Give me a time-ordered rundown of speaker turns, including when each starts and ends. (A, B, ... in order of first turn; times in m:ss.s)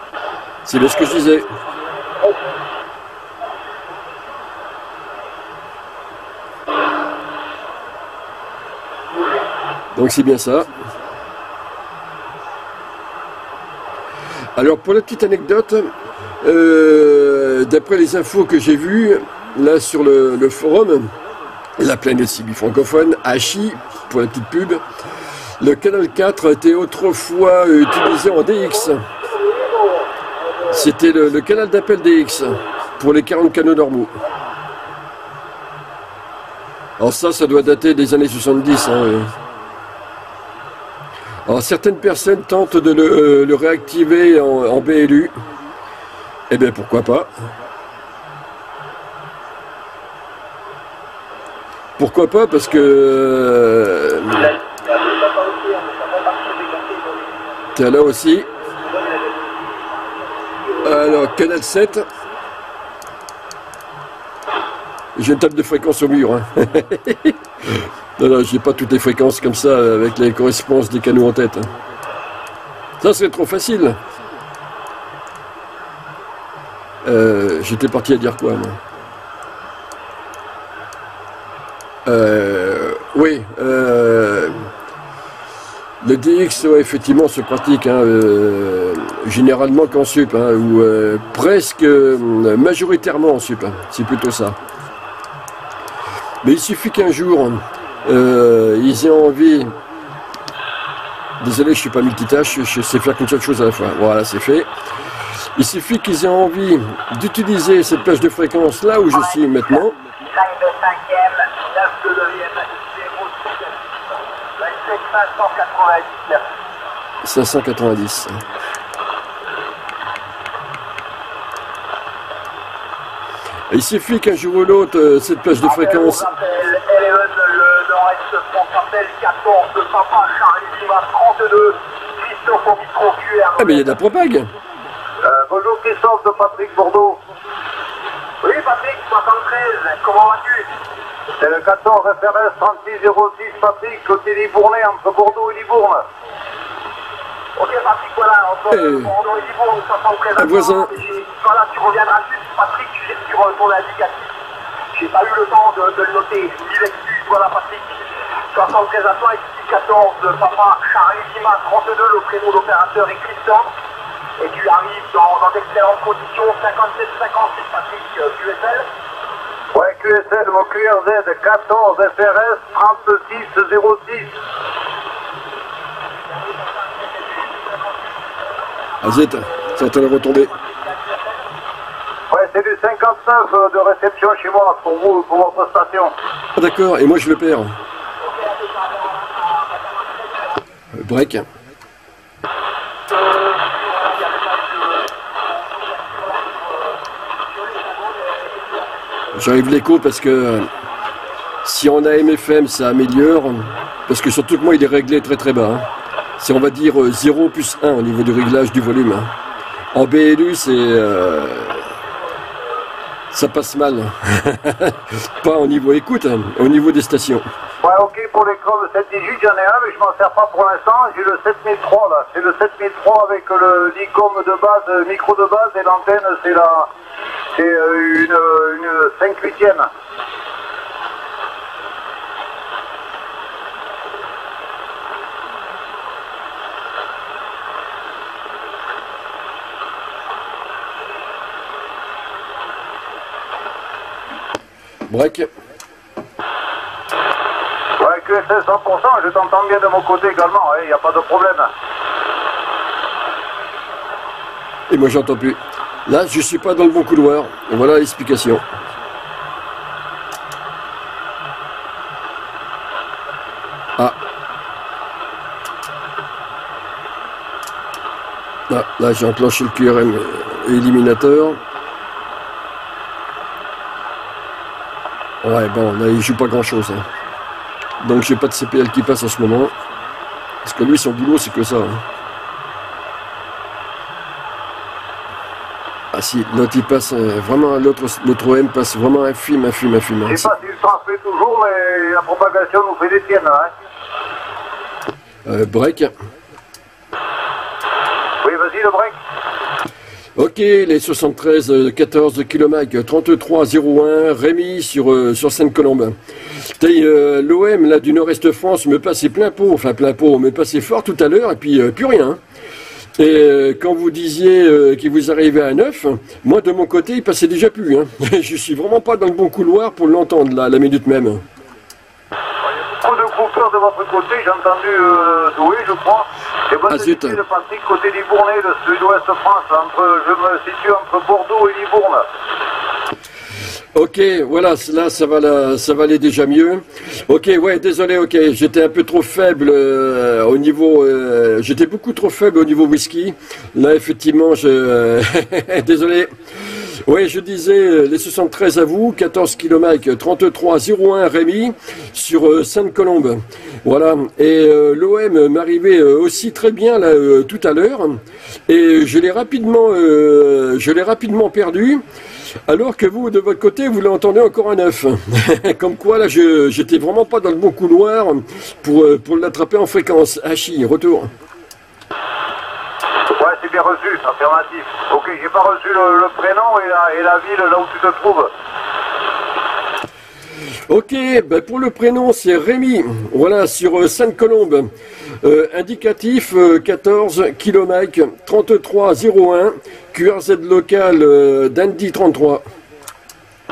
0:00.6-0:01.5 A
0:02.2-0:02.6 B
0:09.9-0:10.7 A
0:14.6-0:21.1 A
0:21.8-0:24.8 A
0:25.6-0:29.0 A
0:28.8-0:30.1 B
0:30.7-0:34.2 A
0:37.0-0:39.3 A
0:41.5-0:45.3 A
0:46.5-0:47.3 A
0:52.0-0:54.5 A
0:54.4-1:01.3 B
0:57.8-0:58.5 A
1:00.8-1:02.1 A
1:05.2-1:11.7 A
1:13.0-1:14.0 A
1:17.0-1:18.8 A
1:22.1-1:24.6 A
1:26.0-1:34.6 A
1:36.4-1:39.8 A
1:41.4-1:44.7 A
1:45.5-1:50.0 A
1:50.2-1:54.0 B
1:54.6-1:56.4 B
1:57.2-1:58.4 A
2:03.7-2:06.3 A
2:05.6-2:14.0 B
2:13.6-2:14.5 A
2:15.2-2:17.2 C
2:18.4-2:20.7 B
2:21.4-2:26.0 C
2:27.6-2:34.4 B
2:28.7-2:29.1 A
2:30.4-2:30.9 A
2:34.9-2:43.7 B
2:44.4-2:48.8 B
2:49.7-2:54.4 C
2:56.3-3:01.5 B
2:59.0-3:00.5 A
3:02.3-3:06.1 C
3:06.6-3:07.8 A
3:08.2-3:10.6 B
3:10.9-3:11.5 A
3:13.1-3:19.0 B
3:19.3-3:20.7 A
3:21.6-3:25.9 A
3:26.4-3:29.3 A
3:29.9-3:31.9 A
3:33.3-3:37.5 A
3:37.8-3:46.9 C
3:47.5-3:49.9 C
4:05.1-4:05.5 A
4:08.0-4:11.7 C
4:14.9-4:18.6 A
4:28.7-4:31.6 A
4:35.4-4:37.1 A
4:38.0-4:39.7 A
4:40.6-4:42.0 A
4:46.1-4:50.5 A
4:50.3-4:53.7 C
4:55.4-4:56.1 A
4:58.4-4:59.2 C
5:00.4-5:06.2 A
5:06.8-5:12.4 A
5:13.2-5:21.4 A
5:22.6-5:32.3 C
5:26.9-5:27.4 A
5:33.9-6:02.0 A
6:02.7-6:11.3 A
6:13.3-6:18.5 C
6:20.9-6:24.9 A
6:25.4-6:32.6 A